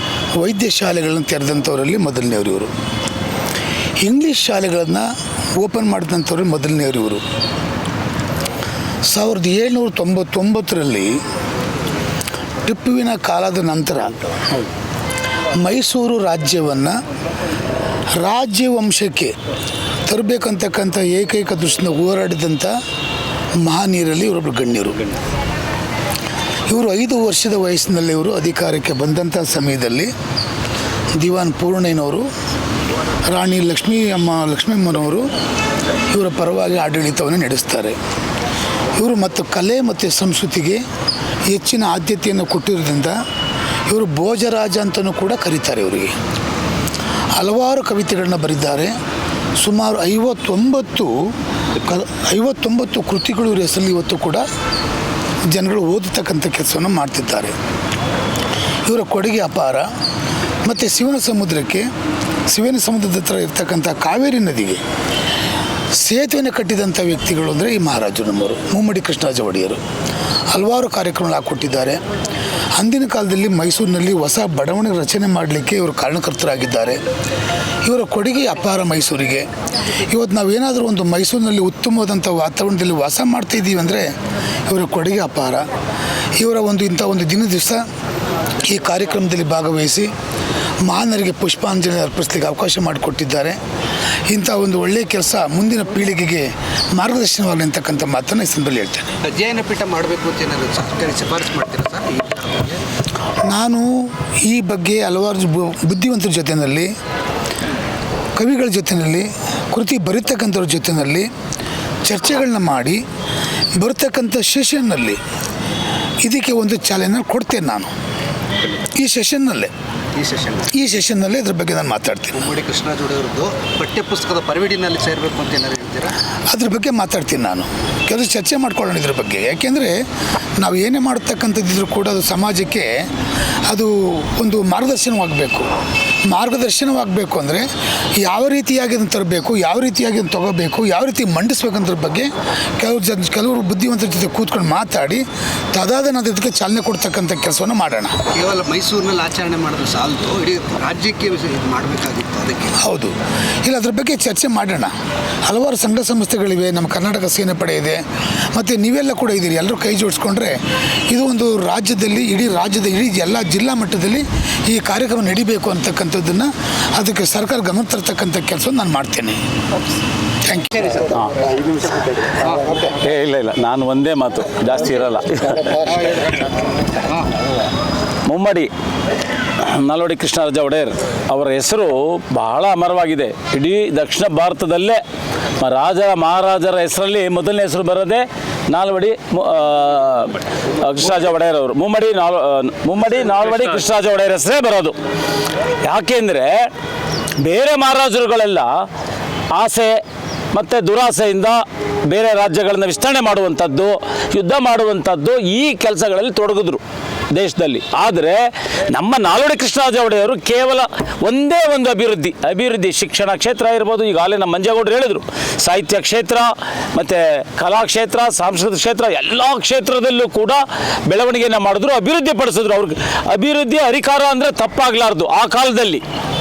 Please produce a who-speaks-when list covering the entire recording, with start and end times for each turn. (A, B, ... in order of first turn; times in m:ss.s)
0:00.4-0:02.7 A
0:04.0-0:07.2 A
0:09.1-0:11.2 A
0:12.6-0:14.6 A
0:15.6-0:17.0 A
0:18.2-0:19.3 A
0:20.1-0:22.8 A
0:23.6-0:25.1 A
0:26.7-0:30.1 A
0:31.2-0:32.3 A
0:33.3-0:35.3 A
0:36.1-0:38.0 A
0:39.0-0:40.8 A
0:41.5-0:43.2 A
0:43.9-0:46.1 A
0:47.4-0:48.9 A
0:49.6-0:54.4 A
0:55.5-0:57.5 A
0:58.9-0:59.9 A
1:00.6-1:01.9 A
1:02.5-1:04.8 A
1:06.0-1:09.8 A
1:10.5-1:12.0 A
1:12.8-1:17.0 A
1:17.8-1:24.1 A
1:24.7-1:25.7 A
1:26.4-1:27.8 A
1:28.6-1:30.1 A
1:30.9-1:33.6 A
1:34.3-1:39.1 A
1:39.3-1:42.8 B
1:43.5-1:46.9 A
1:48.4-1:51.3 A
1:52.1-1:53.0 A
1:53.8-1:55.2 A
1:56.2-1:57.9 A
1:59.0-1:59.7 A
2:00.2-2:00.7 B
2:00.7-2:02.4 A
2:02.3-2:06.2 B
2:06.5-2:10.0 A
2:10.6-2:12.9 A
2:13.7-2:15.7 A
2:16.3-2:17.7 A
2:18.2-2:25.2 A
2:25.7-2:28.2 A
2:28.3-2:32.8 B
2:32.8-2:34.9 A
2:35.5-2:38.0 A
2:38.5-2:40.6 A
2:41.1-2:49.4 A
2:50.4-2:50.9 A
2:51.7-2:52.7 B
2:52.8-2:55.9 C
2:58.3-2:58.7 C
2:59.6-3:05.0 C
3:05.6-3:15.0 C
3:15.8-3:16.7 C
3:17.4-3:18.9 C
3:19.5-3:20.0 C
3:20.5-3:46.0 C